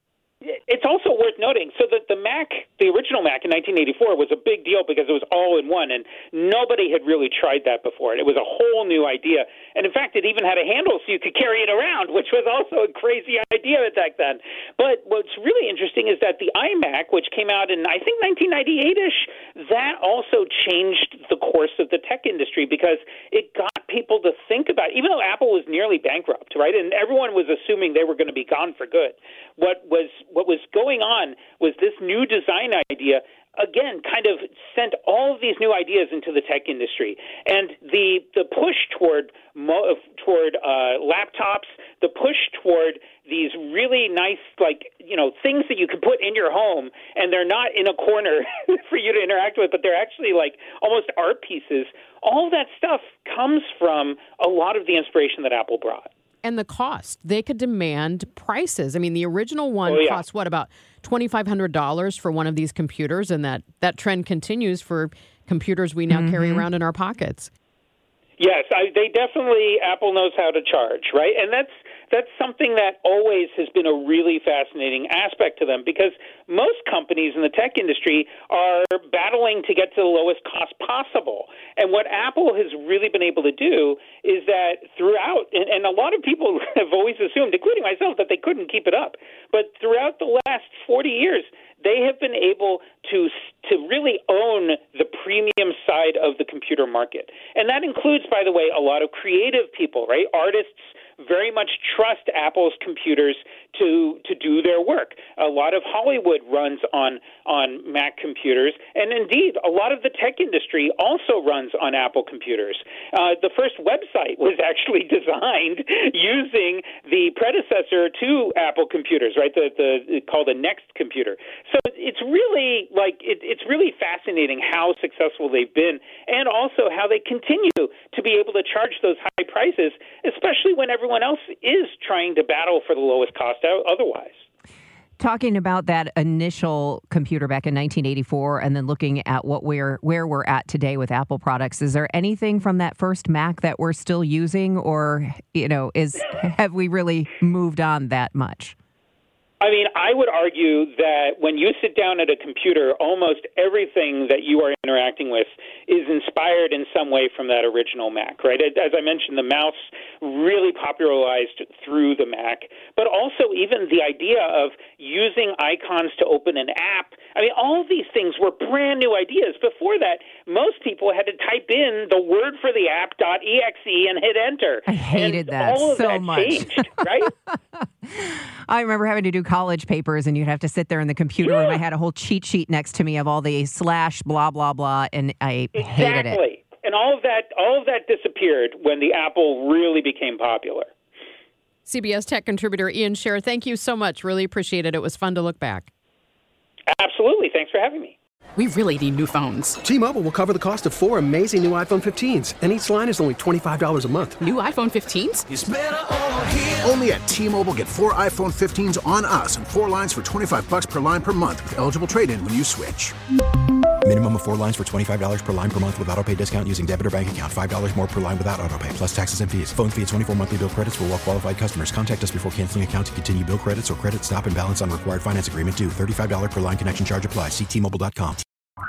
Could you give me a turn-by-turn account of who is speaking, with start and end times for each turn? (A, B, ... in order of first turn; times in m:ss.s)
0:00.4-0:56.1 A
0:56.4-1:07.5 B
0:59.9-1:00.2 A
1:06.1-1:06.7 C
1:08.4-2:14.4 A
2:15.2-2:28.8 C
2:29.6-2:57.3 A
2:54.9-3:06.4 C
3:01.4-3:01.8 A
3:05.8-3:10.9 A
3:11.9-3:15.9 B
3:16.9-3:18.2 A
3:18.6-3:19.8 D
3:19.8-3:24.5 E
3:24.4-3:25.4 D
3:25.5-3:33.2 F
3:34.0-3:48.4 G